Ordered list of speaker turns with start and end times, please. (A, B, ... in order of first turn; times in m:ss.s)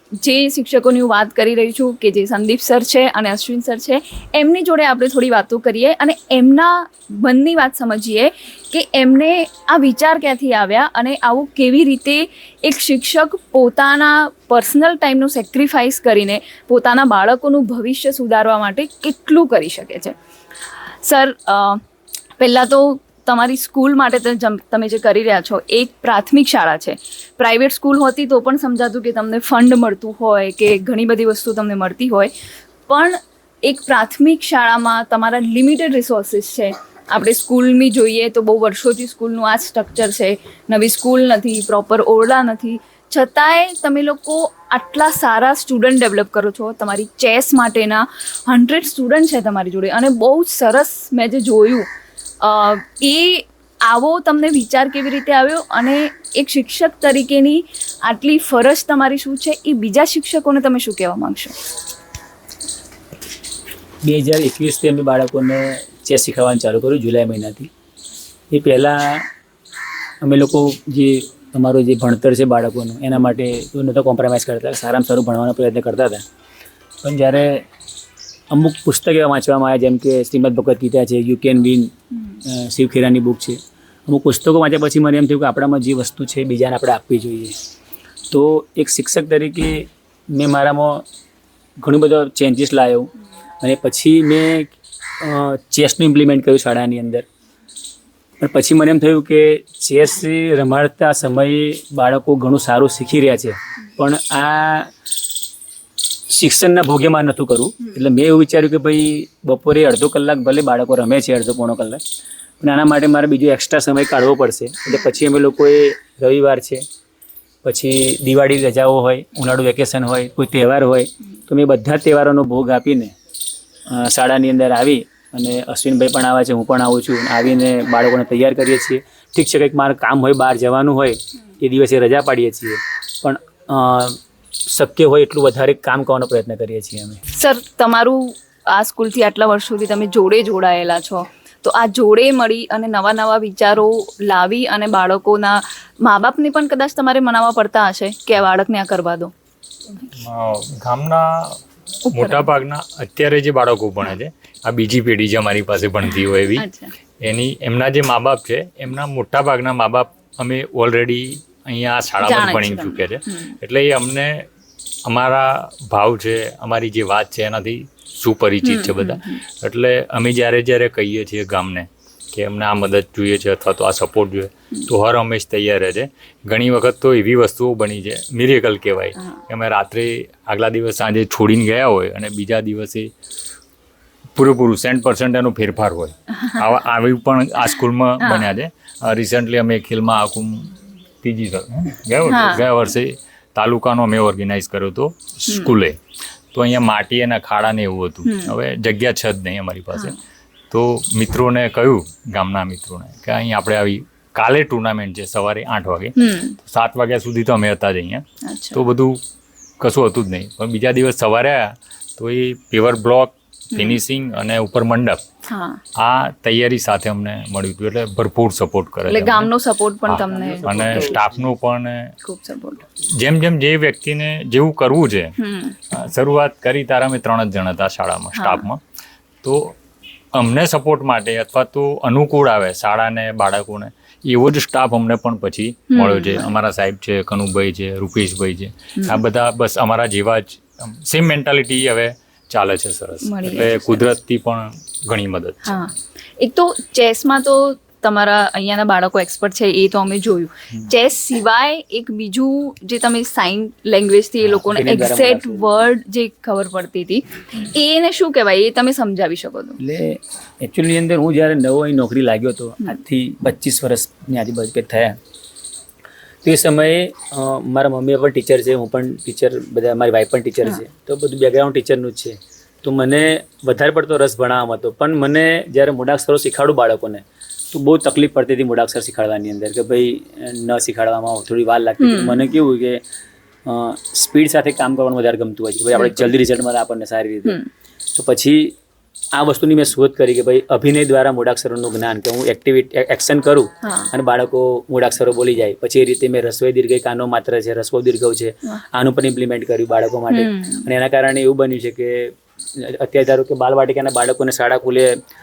0:00.2-0:20.1 A
0:21.0-0:21.8 A
0:22.4-0:32.3 A
0:32.9-0:51.9 A
0:52.4-1:01.5 A
1:04.0-1:07.7 B
1:08.5-1:09.3 B
1:10.2-1:16.2 B
1:17.0-1:17.6 B
1:18.5-1:21.9 B
1:22.4-1:27.6 B
1:28.3-1:31.0 B
1:31.8-1:33.1 B
1:33.6-1:37.3 B
1:38.4-1:44.9 B
1:46.3-1:52.0 B
1:52.6-1:56.8 B
1:57.6-2:03.1 B
2:03.9-2:14.2 B
2:14.7-2:17.2 B
2:17.3-2:29.3 A
2:30.1-2:31.6 C
2:32.1-2:32.5 A
2:32.1-2:36.6 C
2:36.5-2:36.9 A
2:37.2-2:44.4 C
2:42.2-2:43.6 A
2:45.0-3:03.1 C
2:48.6-2:49.4 A
3:04.4-3:16.0 C
3:08.2-3:08.5 A
3:12.3-3:12.7 A
3:15.5-3:15.7 A
3:16.5-3:20.1 C
3:18.2-3:18.5 A
3:20.7-3:29.2 C
3:26.2-3:26.6 A
3:28.4-3:28.8 A
3:29.8-3:35.2 C
3:33.7-3:34.0 A
3:35.5-3:35.8 A
3:36.0-3:39.5 C
3:39.1-3:41.1 A
3:40.1-3:42.1 C
3:40.2-3:41.5 B
3:42.2-3:42.8 A
3:43.2-3:45.3 C
3:45.4-3:45.8 A
3:45.9-3:48.8 C
3:48.3-3:48.7 A
3:49.4-3:49.8 C
3:50.3-4:05.8 C
3:55.9-3:56.6 A
4:03.2-4:04.1 A
4:05.6-4:19.8 A
4:14.6-4:15.9 B
4:19.8-4:25.2 B
4:26.4-4:43.0 B
4:42.0-4:42.4 A
4:43.6-4:47.6 B
4:46.0-4:46.3 A
4:48.2-4:48.8 B
4:49.3-5:05.2 B
4:53.8-4:54.1 A
5:00.3-5:00.9 A